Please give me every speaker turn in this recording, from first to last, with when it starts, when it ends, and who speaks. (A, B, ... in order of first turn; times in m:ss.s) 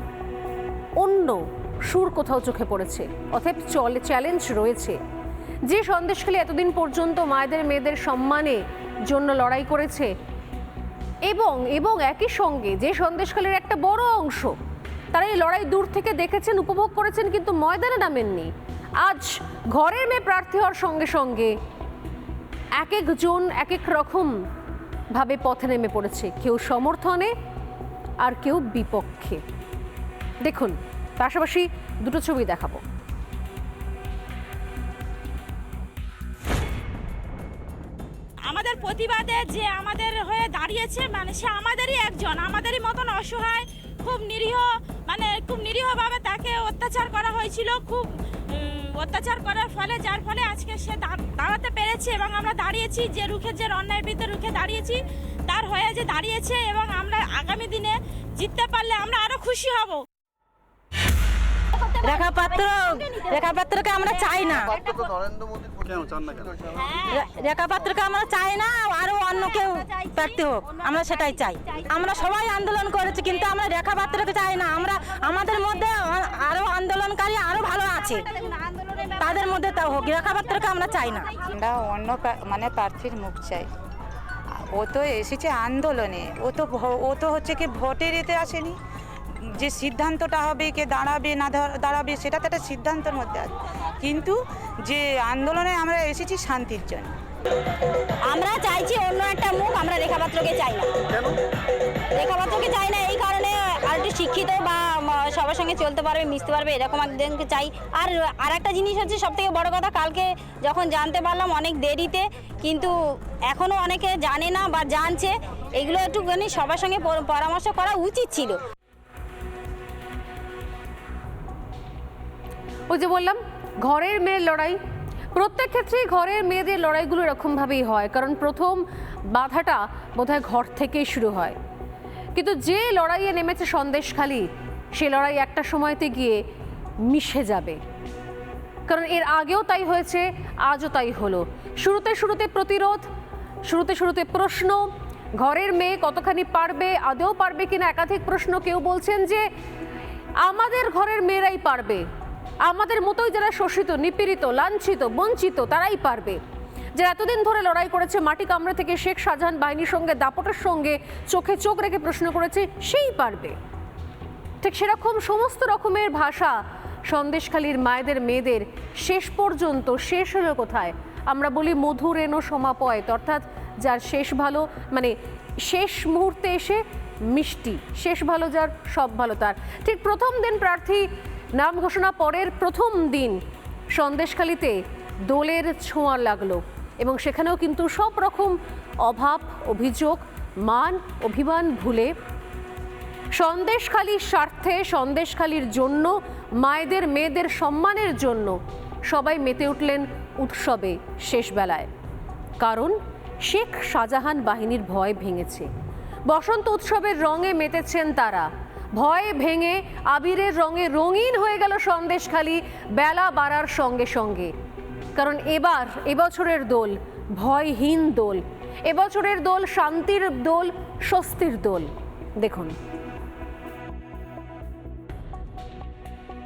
0:01.0-0:05.0 A
0:05.7-0:10.1 A
0:11.2-0:14.6 A
0:15.1-0:21.5 A
0:22.8-0:24.4 A
0:25.1-0:27.3 A
0:28.2-0:29.4 A
0:30.4-0:32.8 A
0:38.5-1:00.0 B
1:02.2-1:02.5 C
1:03.0-1:03.3 D
1:03.5-1:04.6 C
1:07.5-1:09.3 C
1:10.3-1:11.5 C
1:12.0-1:12.4 D
1:12.5-1:18.2 C
1:19.2-1:21.3 C
1:21.4-1:23.7 E
1:24.7-1:28.8 E
1:29.6-1:37.1 E
1:38.3-1:40.9 D
1:42.2-1:52.9 D
1:53.5-1:58.6 D
2:02.9-2:04.8 A
2:05.4-2:11.6 A
2:12.4-2:16.4 A
2:17.1-2:17.8 A
2:18.9-2:23.0 A
2:23.7-2:29.5 A
2:30.4-2:32.0 A
2:32.6-2:36.4 A
2:37.0-2:43.6 A
2:44.6-3:03.4 A
3:04.0-3:12.1 A
3:13.3-3:21.9 A
3:22.6-3:25.7 A
3:26.3-3:34.5 A
3:35.2-3:42.8 A